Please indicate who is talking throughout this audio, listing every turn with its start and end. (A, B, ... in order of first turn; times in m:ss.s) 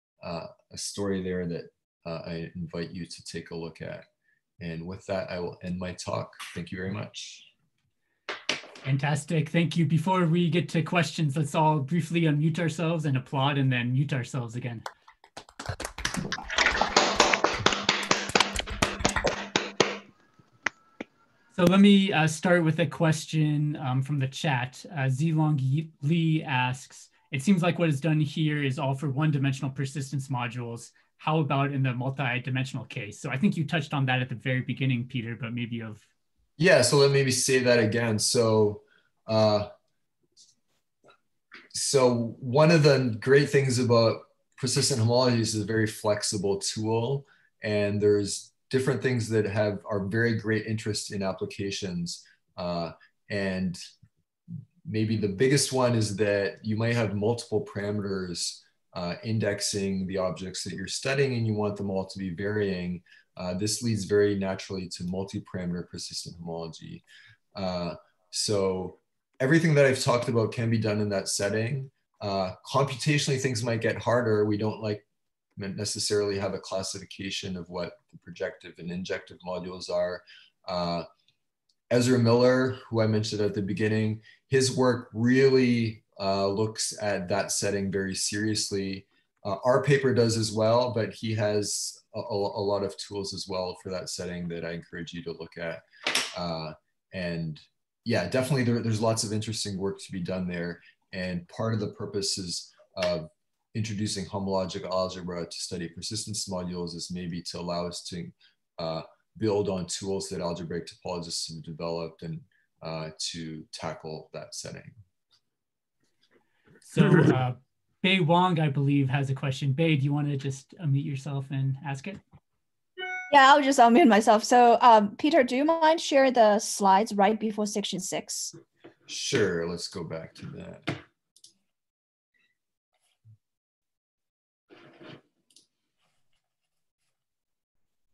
0:00.2-0:04.0 A
0:04.6-0:07.5 A
0:08.8-0:14.8 B
0:21.5-0:36.0 B
0:36.6-0:39.7 A
0:41.7-0:53.8 A
0:54.8-1:07.0 A
1:07.5-1:15.0 A
1:15.6-1:21.0 A
1:21.9-1:54.9 A
1:56.8-2:02.2 B
2:03.3-2:08.5 C
2:09.1-2:11.0 A